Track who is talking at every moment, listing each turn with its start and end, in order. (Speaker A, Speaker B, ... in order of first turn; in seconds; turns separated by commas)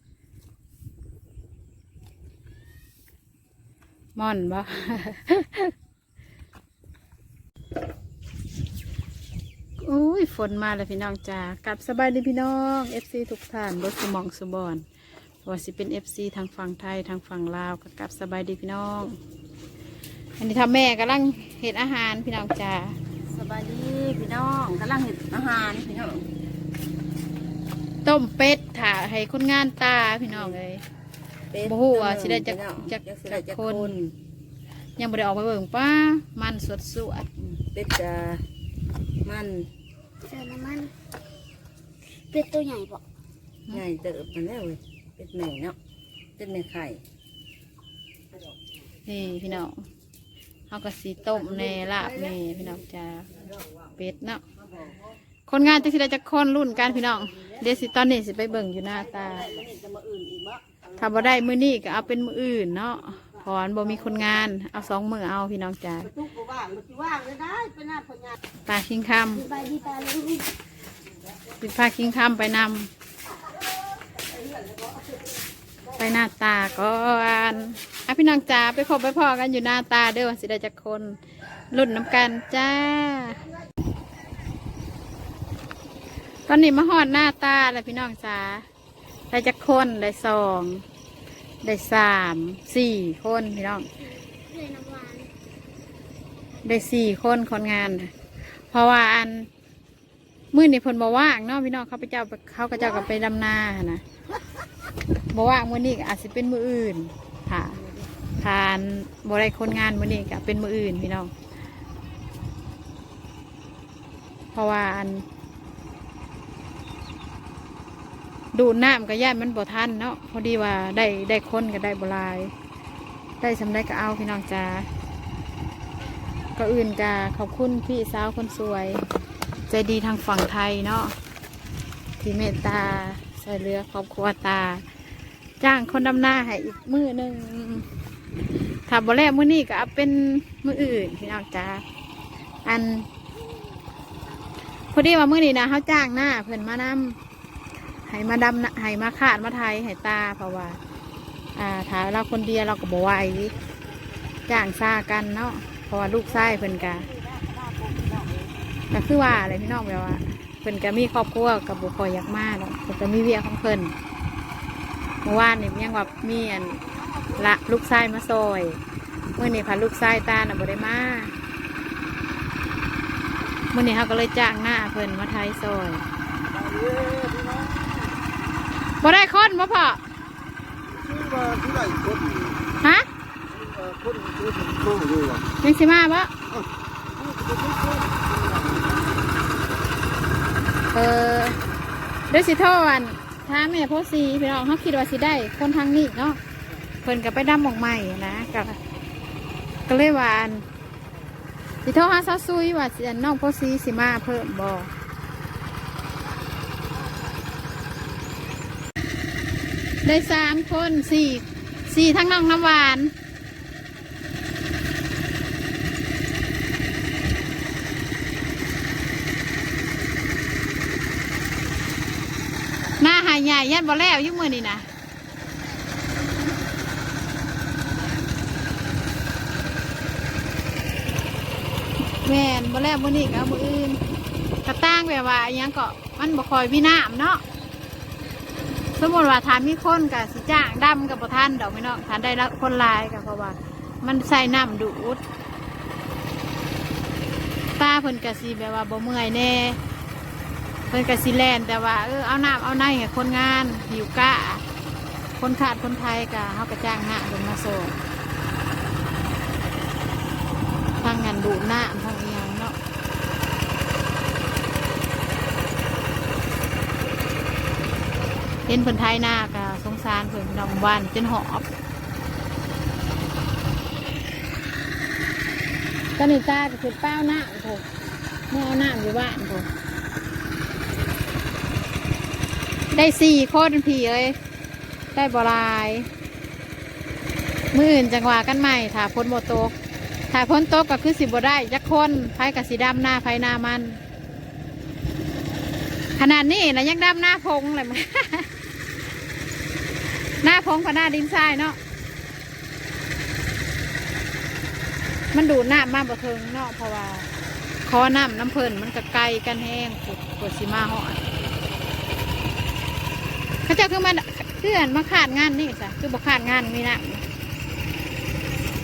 Speaker A: 4.2-5.7, Speaker A: 9.8-14.8, Speaker A: 15.4-19.2, Speaker A: 20.4-23.0, Speaker B: 23.3-26.2, Speaker A: 28.0-30.8, Speaker B: 31.5-34.1, Speaker A: 31.6-33.9, Speaker A: 35.0-37.3, Speaker B: 37.4-38.4, Speaker B: 39.2-39.7, Speaker C: 40.3-40.9, Speaker C: 42.3-43.0, Speaker B: 43.7-45.8, Speaker B: 46.4-47.0, Speaker A: 49.0-49.8, Speaker A: 50.7-53.3, Speaker A: 54.0-54.4, Speaker A: 55.5-59.6, Speaker B: 59.6-60.6, Speaker A: 61.0-66.2, Speaker B: 66.7-68.0, Speaker A: 68.7-69.6, Speaker C: 69.6-70.4, Speaker A: 71.6-72.9, Speaker A: 76.0-81.2, Speaker A: 81.7-83.4, Speaker A: 86.5-88.6, Speaker A: 89.3-90.8, Speaker A: 91.6-93.9, Speaker C: 94.2-95.3, Speaker A: 96.6-99.5, Speaker A: 100.5-104.0, Speaker A: 105.3-107.8, Speaker A: 108.4-111.3, Speaker A: 114.5-115.2, Speaker A: 118.5-122.5, Speaker A: 123.4-124.9, Speaker A: 126.5-129.0, Speaker A: 129.7-131.1, Speaker A: 132.2-134.8, Speaker A: 135.6-137.9, Speaker A: 138.9-141.8, Speaker A: 142.6-143.1, Speaker A: 144.9-147.2, Speaker A: 148.1-150.8, Speaker A: 151.6-153.5, Speaker A: 154.5-157.1, Speaker B: 157.4-158.3, Speaker A: 158.9-163.9, Speaker A: 165.2-168.8, Speaker A: 169.3-171.3, Speaker A: 173.7-176.0, Speaker A: 179.0-180.0, Speaker D: 181.2-182.4, Speaker A: 182.8-183.1, Speaker D: 183.9-185.1, Speaker A: 185.6-186.3, Speaker A: 190.9-191.6, Speaker A: 192.3-196.4, Speaker A: 197.0-198.8, Speaker A: 199.9-200.7, Speaker A: 201.8-204.9, Speaker A: 210.0-213.1, Speaker A: 223.0-224.8, Speaker A: 232.2-234.0, Speaker A: 234.6-237.4, Speaker A: 238.9-245.2, Speaker A: 247.8-249.8, Speaker A: 250.9-254.6, Speaker A: 255.4-258.0, Speaker A: 261.0-262.8, Speaker A: 268.7-271.6, Speaker A: 276.2-277.9, Speaker A: 278.5-279.7, Speaker A: 282.9-284.4, Speaker A: 285.1-286.1, Speaker A: 287.7-289.7, Speaker A: 290.3-294.0, Speaker A: 296.2-298.5, Speaker A: 300.4-301.8, Speaker A: 305.3-307.3, Speaker A: 307.8-311.2, Speaker A: 313.6-317.2